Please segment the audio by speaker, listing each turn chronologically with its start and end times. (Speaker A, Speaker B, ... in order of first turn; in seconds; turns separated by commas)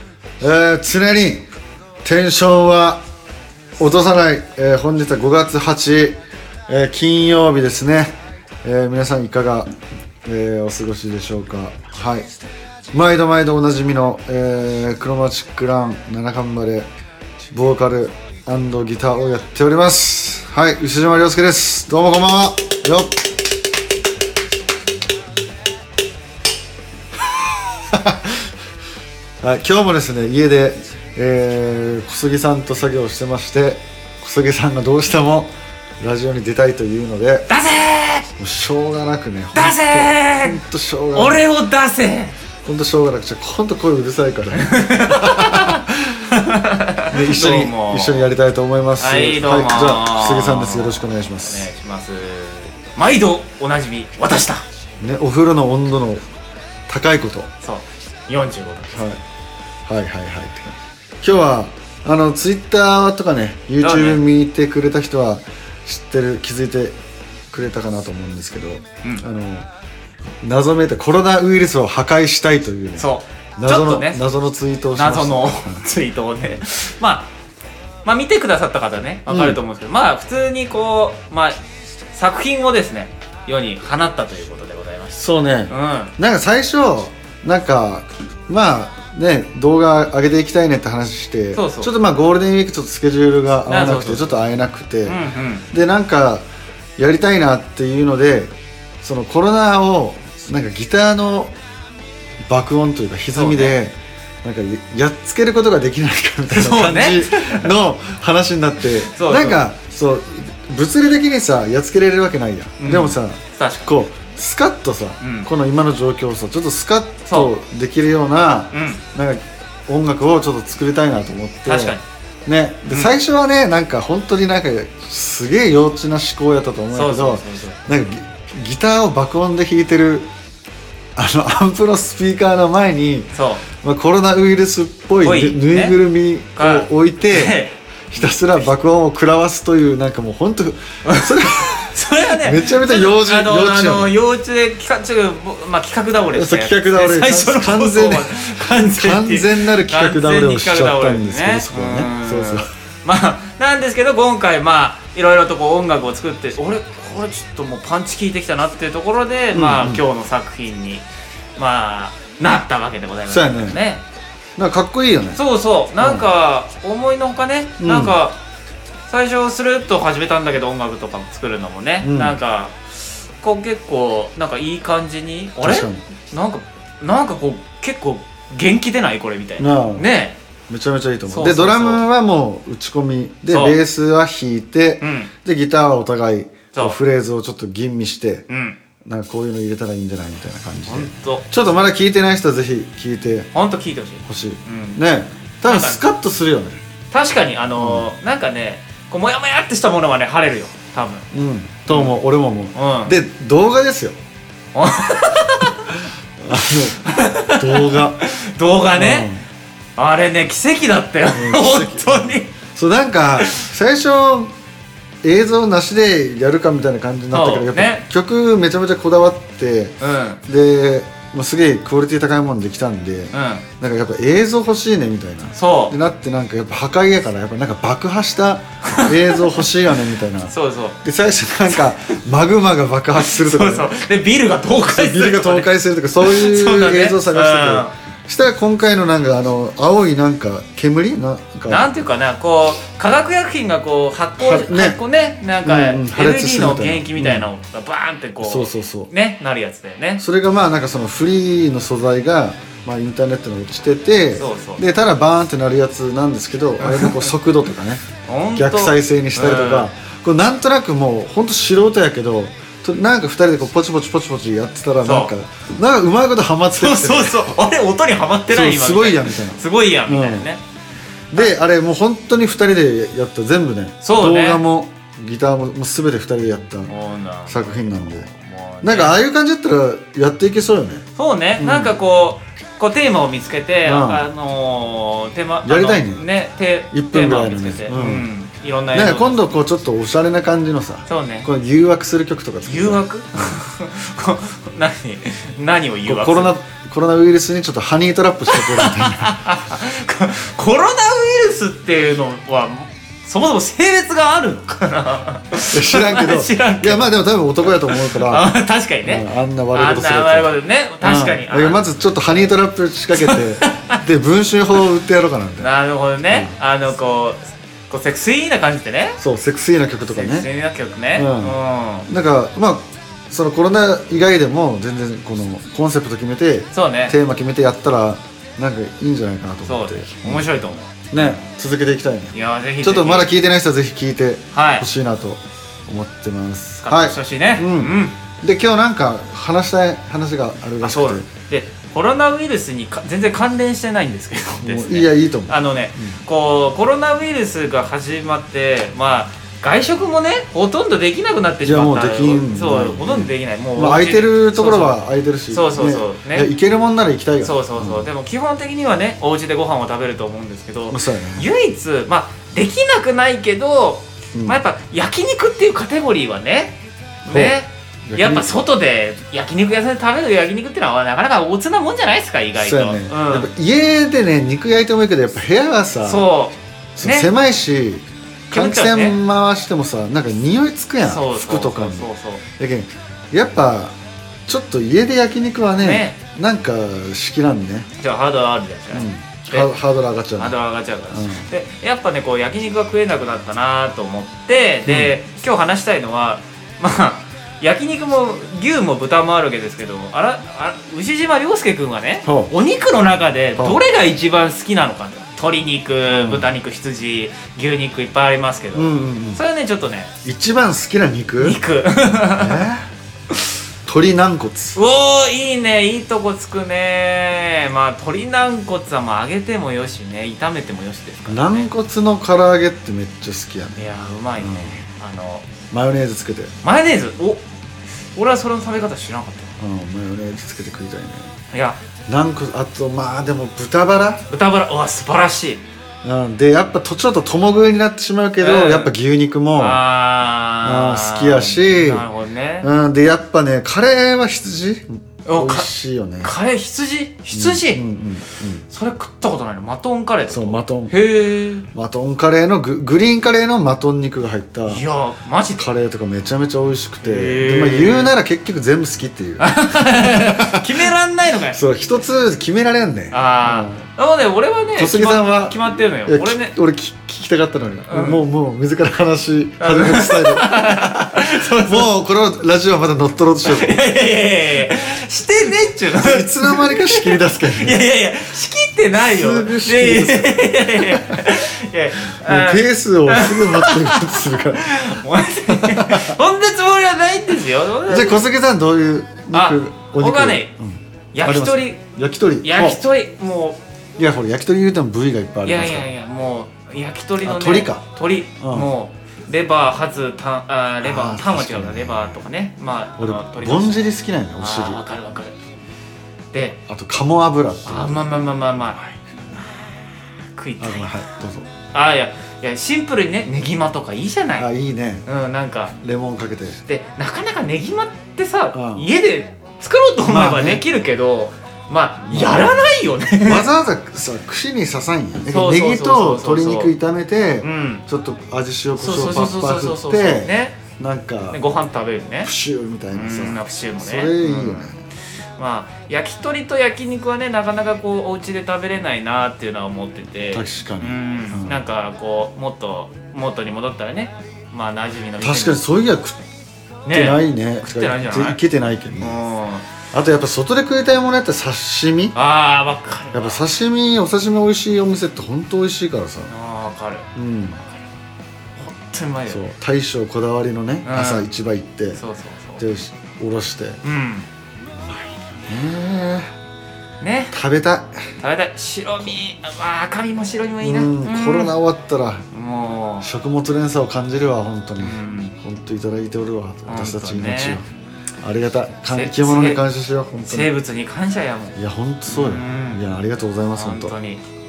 Speaker A: 0.4-1.4, Speaker A: 2.0-3.0, Speaker A: 3.8-8.1, Speaker A: 8.6-9.7, Speaker A: 10.2-12.3, Speaker A: 12.9-16.9, Speaker A: 17.5-23.1, Speaker A: 27.9-28.4, Speaker A: 29.4-37.5, Speaker B: 37.5-38.3, Speaker A: 38.4-41.4, Speaker B: 39.5-40.6, Speaker B: 41.1-42.4, Speaker A: 42.6-45.9, Speaker B: 44.5-48.2, Speaker A: 47.1-51.7, Speaker B: 49.0-54.6, Speaker A: 55.0-56.2, Speaker A: 56.9-57.5, Speaker B: 57.6-59.1, Speaker A: 59.9-67.0, Speaker B: 63.8-64.2, Speaker A: 67.5-69.7, Speaker A: 70.4-75.9, Speaker B: 73.0-74.2, Speaker B: 75.0-77.3, Speaker B: 78.0-81.6, Speaker A: 79.3-79.6, Speaker B: 82.1-86.1, Speaker A: 85.2-95.2, Speaker B: 91.5-91.9, Speaker B: 93.7-94.3, Speaker B: 95.0-95.7, Speaker A: 95.7-96.5, Speaker A: 97.0-101.5, Speaker A: 102.5-130.3, Speaker B: 103.3-103.8, Speaker B: 106.5-107.7, Speaker B: 109.1-109.6, Speaker B: 112.8-114.0, Speaker B: 115.2-115.5, Speaker B: 118.7-119.0, Speaker B: 121.7-122.0, Speaker B: 126.9-127.8, Speaker A: 131.2-137.6, Speaker B: 133.3-133.6, Speaker B: 135.2-136.0, Speaker B: 136.6-138.7, Speaker A: 138.1-144.2, Speaker B: 141.0-164.0, Speaker A: 146.3-152.7, Speaker A: 159.5-160.0, Speaker A: 163.3-163.8, Speaker A: 164.6-165.4, Speaker B: 165.3-168.4, Speaker A: 166.0-166.3, Speaker A: 167.8-168.2, Speaker B: 169.1-172.8, Speaker A: 172.0-172.4, Speaker B: 173.4-180.4, Speaker A: 175.6-176.0, Speaker A: 179.6-180.1, Speaker A: 180.7-188.5, Speaker B: 181.3-182.0, Speaker B: 183.5-183.8, Speaker B: 185.0-185.3, Speaker B: 188.5-188.8, Speaker A: 189.0-193.5, Speaker B: 190.9-191.5, Speaker B: 193.5-195.0, Speaker A: 194.2-196.8, Speaker B: 195.6-196.0, Speaker B: 197.1-201.2, Speaker A: 197.8-198.1, Speaker A: 201.3-204.2, Speaker B: 201.9-202.1, Speaker B: 202.7-203.1, Speaker B: 204.7-206.0, Speaker A: 206.4-208.2, Speaker B: 206.5-209.3, Speaker A: 208.9-209.4, Speaker B: 210.0-212.5, Speaker A: 211.3-214.5, Speaker B: 213.4-213.7, Speaker A: 215.2-233.9, Speaker B: 217.3-218.1, Speaker B: 220.0-220.4, Speaker B: 223.3-223.6, Speaker B: 225.5-225.9, Speaker B: 228.9-229.4, Speaker B: 230.4-231.0, Speaker B: 233.2-235.7, Speaker A: 234.8-241.9, Speaker B: 236.2-237.9, Speaker B: 241.7-250.2, Speaker A: 244.4-245.0, Speaker A: 245.6-247.5, Speaker A: 248.4-249.1, Speaker A: 250.2-258.0, Speaker B: 254.4-254.8, Speaker B: 256.8-257.3, Speaker B: 258.2-259.9, Speaker A: 258.5-267.5, Speaker B: 265.0-265.3, Speaker B: 266.7-270.6, Speaker A: 268.5-270.5, Speaker A: 271.3-276.9, Speaker B: 274.0-274.6, Speaker B: 276.9-279.2, Speaker A: 277.5-278.3, Speaker A: 278.8-281.0, Speaker B: 281.1-289.4, Speaker A: 281.6-282.0, Speaker A: 283.8-284.2, Speaker A: 285.6-286.3, Speaker A: 286.9-288.3, Speaker A: 288.9-293.6, Speaker B: 291.1-291.5, Speaker B: 292.6-296.5, Speaker A: 296.1-299.5, Speaker B: 298.5-307.1, Speaker A: 305.7-315.7, Speaker B: 307.6-311.9, Speaker B: 313.1-314.0, Speaker B: 315.6-319.2, Speaker A: 316.2-316.6, Speaker A: 319.2-320.5, Speaker B: 320.0-322.1, Speaker A: 321.1-330.5, Speaker B: 326.7-327.2, Speaker B: 329.6-331.4, Speaker A: 331.1-341.3, Speaker B: 332.3-333.3, Speaker B: 334.5-334.9, Speaker B: 336.8-338.2, Speaker B: 340.8-355.0, Speaker A: 344.6-346.2, Speaker A: 351.6-358.1, Speaker B: 355.5-356.5, Speaker B: 357.4-373.5, Speaker A: 360.9-361.5, Speaker A: 364.3-364.6, Speaker A: 367.2-368.5, Speaker A: 372.5-376.3, Speaker B: 376.0-377.3, Speaker A: 377.0-387.9, Speaker B: 378.5-379.2, Speaker B: 381.0-382.4, Speaker B: 385.8-386.2, Speaker B: 388.0-389.7, Speaker A: 388.9-390.6, Speaker B: 390.4-410.1, Speaker A: 391.1-391.5, Speaker A: 394.9-395.1, Speaker A: 402.2-402.5, Speaker A: 406.1-406.5, Speaker A: 408.7-409.4, Speaker A: 410.2-411.6, Speaker B: 411.4-412.7, Speaker A: 412.3-412.9, Speaker A: 413.9-414.8, Speaker B: 414.7-421.7, Speaker A: 421.3-423.8, Speaker B: 423.8-425.5, Speaker A: 424.4-424.8, Speaker A: 425.7-426.5, Speaker B: 426.6-427.4, Speaker B: 428.1-429.6, Speaker A: 429.6-431.3, Speaker B: 431.5-431.8, Speaker A: 432.1-434.2, Speaker B: 434.3-435.6, Speaker A: 436.0-439.8, Speaker B: 438.4-438.9, Speaker B: 439.6-442.7, Speaker A: 440.6-442.1, Speaker A: 442.6-446.3, Speaker B: 445.2-445.7, Speaker B: 446.2-447.8, Speaker A: 447.3-448.6, Speaker B: 448.7-451.7, Speaker A: 450.3-450.9, Speaker A: 451.7-454.8, Speaker B: 454.7-455.7, Speaker A: 455.6-460.9, Speaker B: 457.0-458.1, Speaker B: 459.4-461.6, Speaker A: 461.5-463.9, Speaker B: 463.1-466.6, Speaker A: 464.8-473.8, Speaker B: 467.9-468.2, Speaker B: 469.6-471.9, Speaker B: 473.4-488.3, Speaker A: 476.0-477.8, Speaker A: 478.9-481.3, Speaker A: 482.2-486.1, Speaker A: 487.8-492.8, Speaker B: 489.3-490.5, Speaker B: 491.1-491.8, Speaker B: 492.4-493.6, Speaker A: 494.0-495.9, Speaker B: 495.4-503.8, Speaker A: 497.2-497.9, Speaker A: 498.4-498.7, Speaker A: 500.8-502.2, Speaker A: 503.0-504.8, Speaker B: 504.4-505.4, Speaker B: 506.3-506.6, Speaker A: 506.7-508.1, Speaker B: 507.6-508.8, Speaker B: 510.4-511.0, Speaker A: 510.6-511.5, Speaker B: 511.7-514.5, Speaker A: 514.4-515.0, Speaker B: 515.0-515.7, Speaker A: 515.8-516.6, Speaker B: 516.6-523.5, Speaker A: 518.5-518.9, Speaker A: 520.0-520.6, Speaker A: 522.0-522.7, Speaker A: 523.2-531.4, Speaker B: 525.3-526.7, Speaker B: 527.4-527.8, Speaker B: 528.7-530.6, Speaker B: 531.3-532.3, Speaker A: 532.2-534.8, Speaker B: 532.9-534.7, Speaker B: 535.4-545.6, Speaker A: 540.3-541.6, Speaker A: 545.2-546.2, Speaker B: 546.9-548.4, Speaker A: 546.9-549.2, Speaker B: 549.0-549.7, Speaker A: 549.9-552.1, Speaker B: 552.1-553.4, Speaker A: 553.1-556.3, Speaker B: 556.3-557.1, Speaker A: 557.1-557.6, Speaker B: 558.6-559.4, Speaker A: 559.3-562.0, Speaker B: 560.9-561.3, Speaker B: 562.0-562.6, Speaker A: 562.6-563.8, Speaker B: 563.8-564.3, Speaker A: 564.8-566.3, Speaker B: 567.0-567.4, Speaker A: 567.3-568.1, Speaker B: 568.2-571.5, Speaker A: 570.6-572.2, Speaker B: 572.3-573.1, Speaker A: 573.0-577.6, Speaker B: 574.8-575.4, Speaker B: 576.7-577.6, Speaker A: 578.2-580.5, Speaker B: 578.9-579.6, Speaker B: 580.2-581.6, Speaker A: 581.5-583.9, Speaker B: 582.1-582.8, Speaker B: 583.5-584.2